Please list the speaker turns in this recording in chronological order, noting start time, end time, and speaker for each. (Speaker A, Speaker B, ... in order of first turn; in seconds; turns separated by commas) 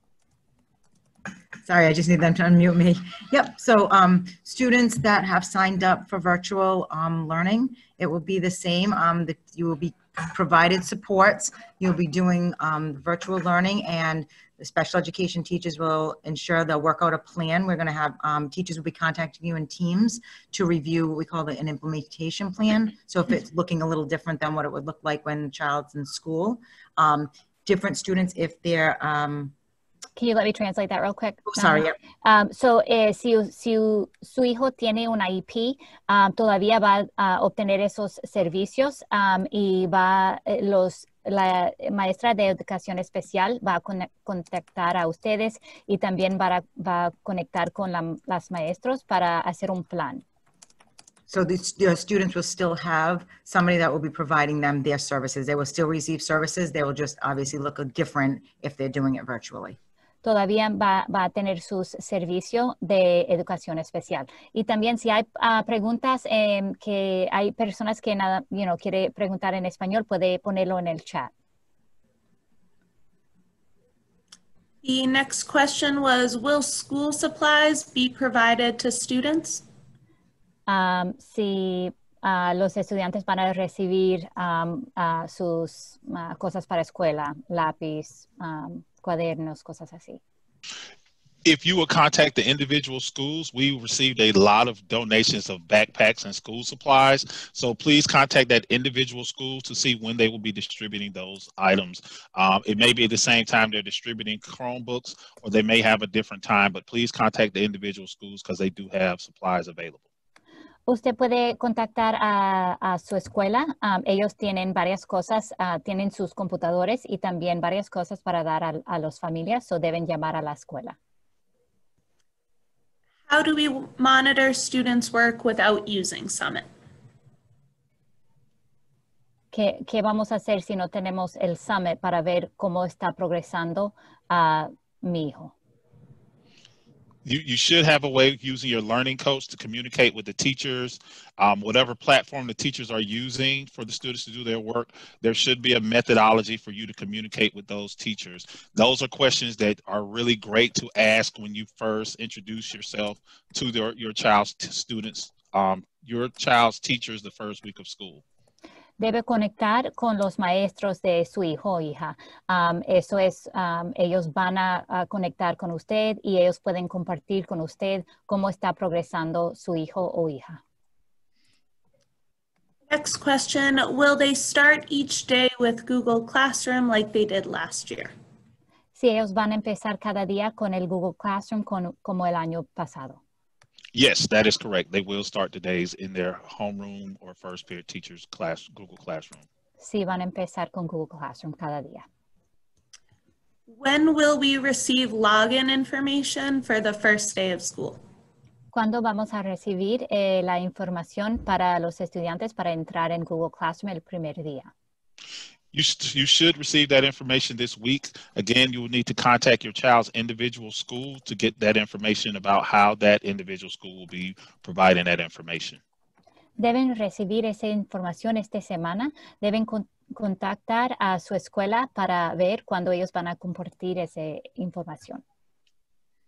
Speaker A: 1.6-29.5, Speaker B: 30.2-50.2, Speaker A: 31.5-31.9, Speaker A: 51.3-59.8, Speaker B: 60.2-71.3, Speaker C: 74.8-79.6, Speaker B: 80.7-90.2, Speaker D: 91.4-110.0, Speaker B: 110.9-121.0, Speaker C: 123.3-126.7, Speaker B: 129.5-135.5, Speaker D: 137.2-158.2, Speaker B: 159.0-170.6, Speaker C: 172.9-178.1, Speaker B: 178.9-183.2, Speaker D: 183.9-189.4, Speaker B: 189.8-192.0, Speaker C: 193.7-198.0, Speaker B: 198.7-204.7, Speaker D: 205.7-215.8, Speaker B: 216.6-225.2